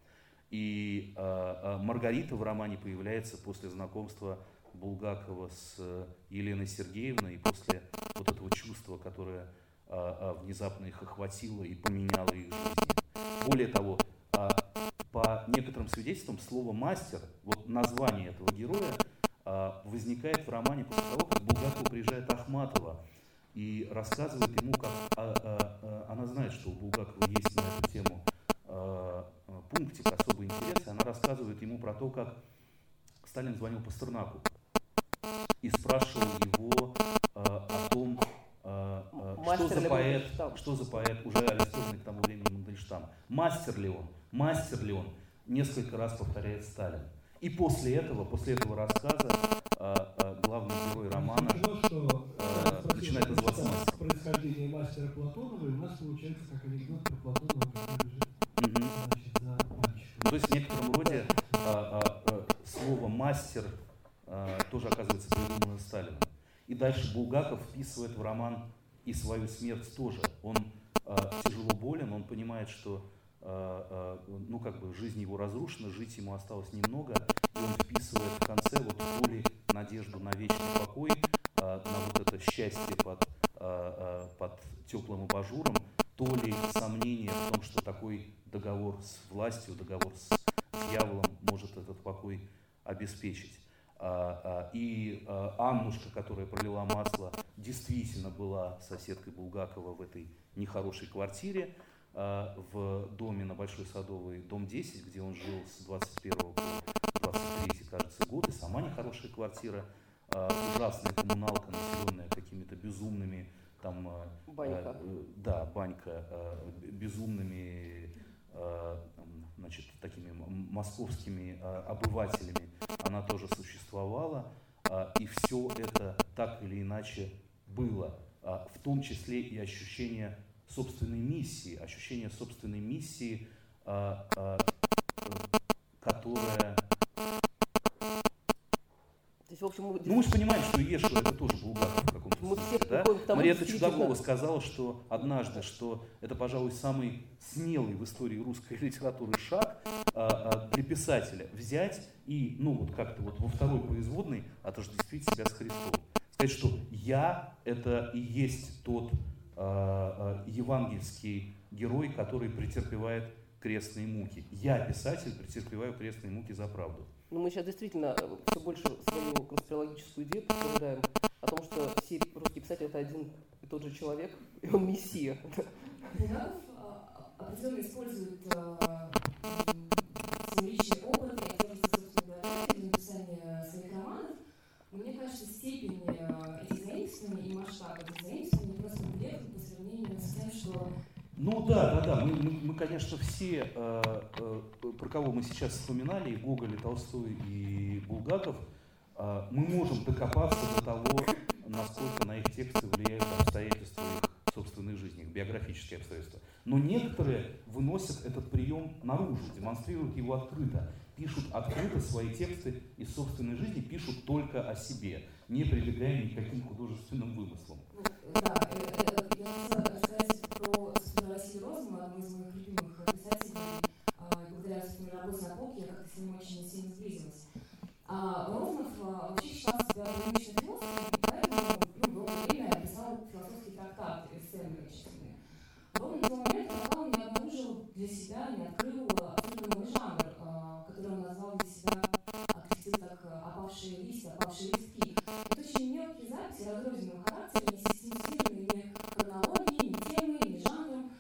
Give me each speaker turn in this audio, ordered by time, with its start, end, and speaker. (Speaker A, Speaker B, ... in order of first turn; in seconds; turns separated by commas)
Speaker A: 0.5-23.0, Speaker A: 23.5-32.4, Speaker A: 33.2-34.5, Speaker A: 35.6-51.6, Speaker B: 39.1-41.1, Speaker C: 50.9-58.3, Speaker A: 52.4-54.0, Speaker A: 58.6-59.0, Speaker C: 58.9-60.3, Speaker A: 60.2-134.7, Speaker C: 61.2-61.7, Speaker B: 114.5-115.0, Speaker A: 136.0-136.8, Speaker B: 139.5-140.4, Speaker A: 140.1-167.1, Speaker B: 142.4-144.2, Speaker B: 167.3-176.1, Speaker D: 176.1-184.4, Speaker D: 184.9-190.9, Speaker A: 191.4-198.7, Speaker C: 191.7-192.1, Speaker A: 199.2-217.8, Speaker D: 217.9-227.4, Speaker D: 228.1-235.4, Speaker D: 235.9-251.1